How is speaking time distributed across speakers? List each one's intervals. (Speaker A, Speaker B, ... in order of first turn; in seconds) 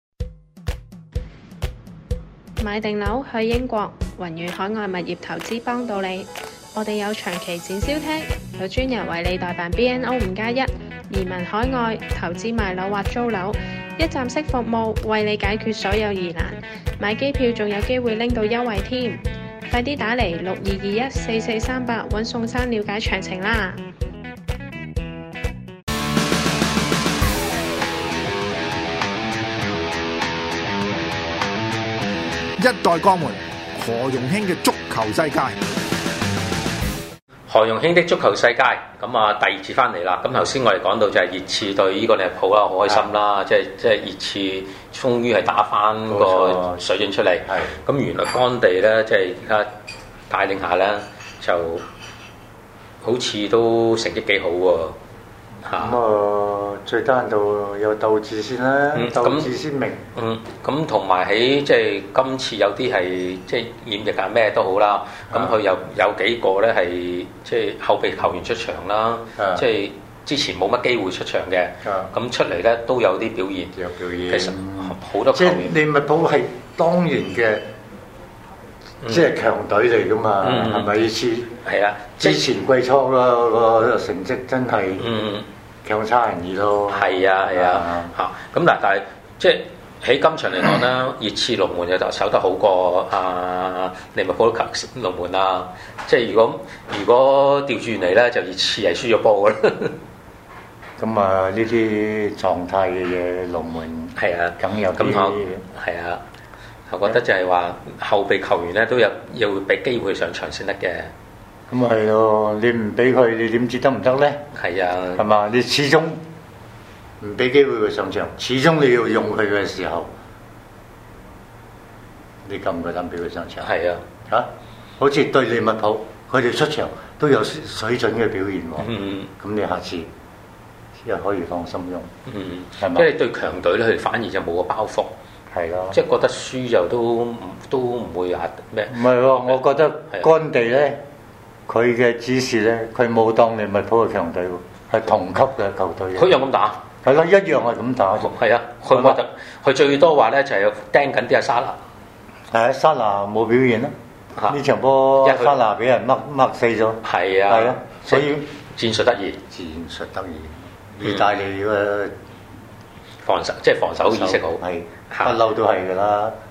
Speaker A: 2.6-23.8
Speaker B: 32.6-35.6
Speaker C: 37.5-49.7, 50.3-51.8, 53.0-55.0, 55.6-56.0, 58.9-59.5, 60.1-73.7, 74.3-75.7, 80.4-80.9, 81.6-82.4, 85.0-85.5, 86.9-99.9, 104.2-106.2, 106.9-111.1, 114.5-115.2, 123.6-124.0, 128.8-129.3, 132.3-135.1, 135.9-138.9, 146.2-146.8, 148.2-151.8, 155.2-155.6, 157.0-159.4, 163.2-165.4
Speaker D: 46.1-46.8, 47.4-47.8, 55.7-60.0, 65.3-65.5, 69.4-69.6, 71.8-72.1, 73.7-77.7, 79.0-81.6, 82.2-85.1, 85.8-88.1, 101.0-105.6, 111.7-114.4, 115.2-116.2, 117.2-120.1, 122.4-123.7, 124.3-130.1, 131.0-132.1, 132.8-133.1, 135.5-136.0, 138.9-141.0, 141.7-146.4, 147.0-148.3, 148.9-149.2, 152.5-153.9, 154.5-158.4, 159.5-162.2, 164.0-166.3